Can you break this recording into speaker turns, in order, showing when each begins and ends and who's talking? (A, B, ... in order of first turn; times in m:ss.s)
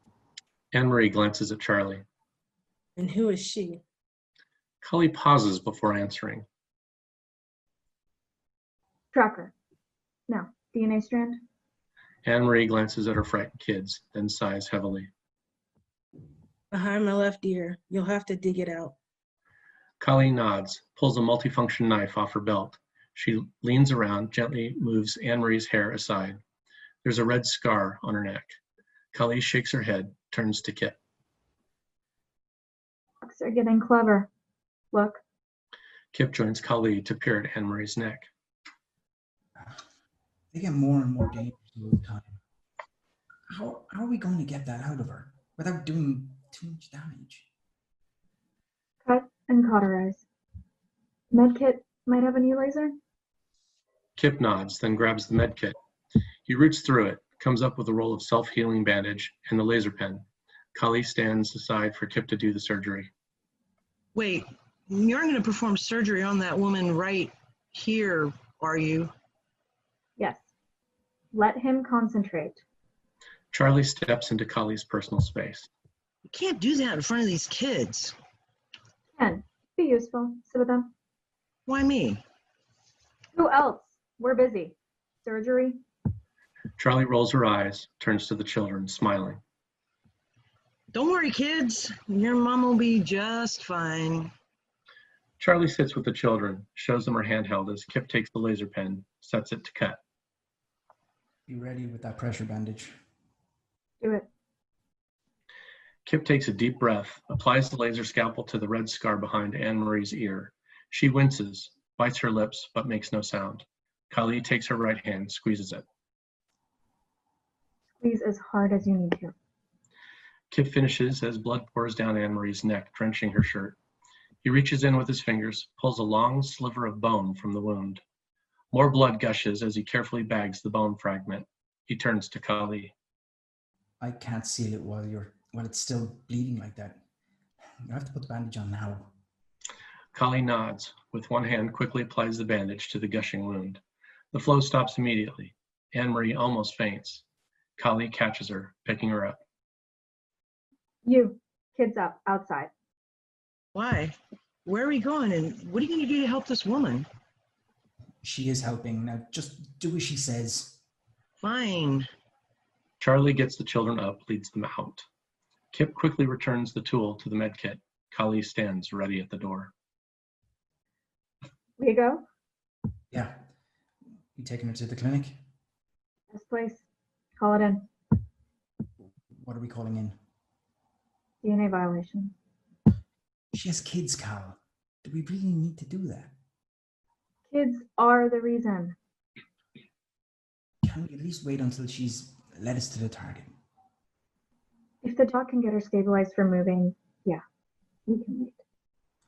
0:00.7-0:02.0 A
0:03.0-0:03.8 B
0:04.8-0:06.4 A
0:09.1-0:09.5 C
0:10.3-0:11.4 C
0:12.2-0:15.1 A
0:16.7-0:18.9 B
0:20.0-0:26.4 A
0:27.0-0:28.6 A
0:29.1-0:31.0 A
0:33.2-0:34.3 C
0:34.9-0:35.2 C
0:36.1-0:38.3 A
0:39.5-0:39.8 D
0:40.5-0:42.4 D
0:43.5-0:47.5 D
0:49.0-0:50.2 C
0:51.3-0:53.0 C
0:54.2-0:55.8 A
0:56.5-1:00.2 A
1:00.7-1:03.1 A
1:04.1-1:09.1 E
1:10.2-1:10.4 C
1:11.3-1:12.6 C
1:13.5-1:15.7 A
1:16.3-1:18.1 E
1:19.2-1:20.9 C
1:21.7-1:22.2 E
1:23.3-1:25.8 C
1:26.8-1:29.4 A
1:30.9-1:34.3 E
1:35.4-1:40.0 A
1:41.5-1:42.9 D
1:44.0-1:44.3 C
1:46.0-1:55.8 A
1:58.0-1:59.3 C
2:00.5-2:03.8 A
2:04.4-2:08.0 A
2:08.7-2:12.9 A
2:14.0-2:17.0 D
2:17.8-2:19.1 D
2:20.1-2:23.8 A
2:24.3-2:27.2 A
2:27.8-2:29.4 A
2:31.0-2:32.7 C
2:33.7-2:37.1 E
2:38.2-2:40.8 D
2:41.4-2:42.1 E
2:43.0-2:45.0 A
2:45.7-2:49.7 A
2:51.8-2:52.2 C
2:53.1-2:53.4 D
2:54.4-2:55.4 D
2:56.3-2:56.8 C
2:57.4-2:57.9 C
2:59.3-3:00.2 D
3:01.4-3:02.3 C
3:03.5-3:06.3 D
3:07.5-3:09.0 C
3:10.8-3:13.5 D
3:15.0-3:17.4 C
3:18.1-3:18.6 C